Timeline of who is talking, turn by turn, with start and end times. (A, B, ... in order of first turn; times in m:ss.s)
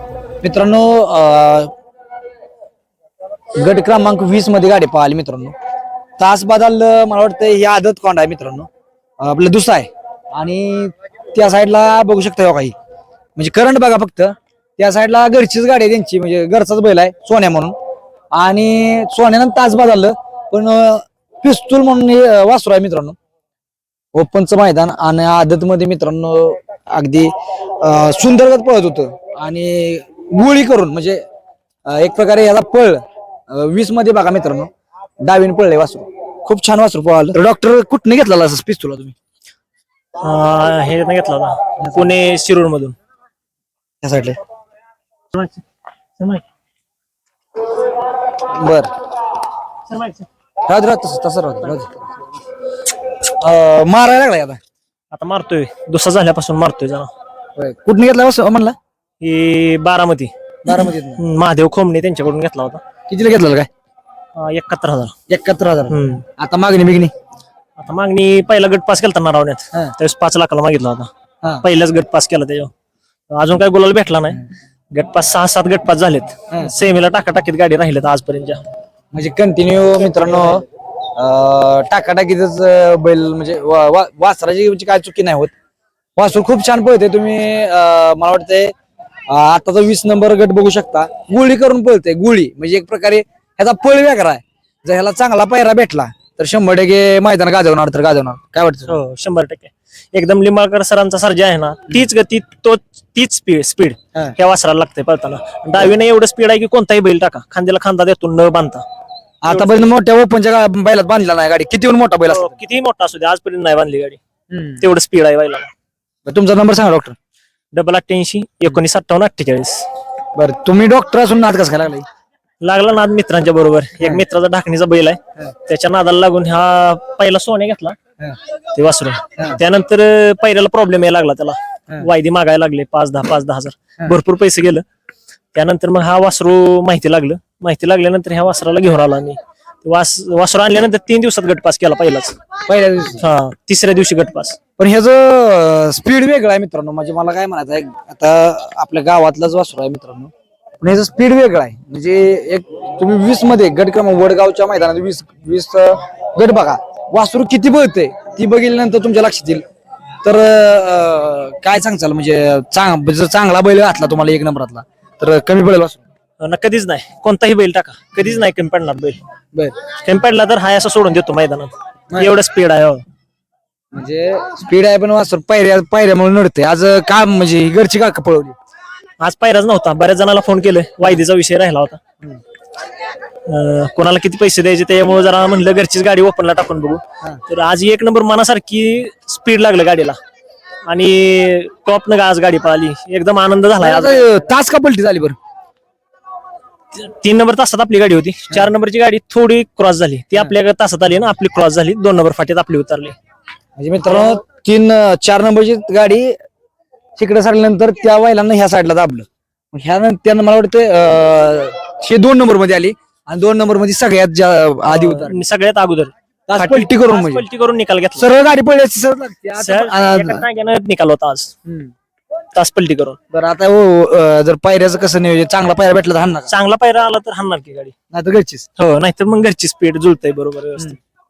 0:00.4-0:01.7 A
0:03.6-0:05.5 A
0:06.2-0:08.7 A
0:09.2-0:12.7 A
0:13.4-0:17.7 A
0:18.3-0:23.2 A
0:24.1-0:31.2 A
0:31.9-0:34.7 A
0:35.2-0:39.2 A
0:40.2-0:43.0 B
0:41.8-0:42.1 A
0:44.0-0:44.4 A
0:45.3-0:45.6 B
0:46.2-0:46.4 B
0:48.3-0:48.9 A
0:49.9-0:50.3 B
0:50.7-0:52.1 A
0:53.2-0:54.6 A
0:55.1-0:57.1 B
0:57.6-0:58.8 A
0:59.2-1:02.8 B
1:00.6-1:01.2 A
1:03.1-1:03.7 A
1:04.3-1:05.1 B
1:05.3-1:07.1 A
1:05.9-1:06.2 B
1:07.8-1:11.1 B
1:11.6-1:12.7 B
1:13.3-1:14.4 B
1:14.9-1:18.6 B
1:19.1-1:25.5 A
1:26.2-1:28.7 A
1:29.3-1:38.9 A
1:38.9-1:48.8 B
1:49.4-1:52.5 A
1:49.5-1:49.9 B
1:52.3-1:54.2 B
1:54.5-1:54.8 A
1:54.8-1:55.7 B
1:56.2-1:57.2 A
1:57.7-1:59.9 B
2:00.4-2:02.0 A
2:02.6-2:08.0 B
2:08.7-2:14.8 B
2:15.5-2:22.4 B
2:22.7-2:23.2 A
2:23.2-2:24.6 B
2:24.8-2:39.6 A
2:40.2-2:46.0 A
2:46.4-2:49.2 B
2:50.0-2:53.0 B
2:52.1-2:52.4 A
2:53.9-2:58.6 A
2:59.2-3:02.0 B
3:03.5-3:10.2 B
3:10.8-3:14.5 B
3:13.8-3:15.4 A
3:16.9-3:23.2 B
3:23.8-3:26.3 A
3:24.0-3:24.4 B
3:27.2-3:35.4 A
3:34.9-3:38.2 B
3:36.5-3:37.4 A
3:38.2-3:40.4 A
3:39.6-3:41.5 B
3:41.6-3:41.9 A
3:42.5-3:43.2 B
3:43.3-3:46.5 A
3:46.5-3:47.9 B
3:48.1-3:48.7 A
3:48.8-3:51.0 B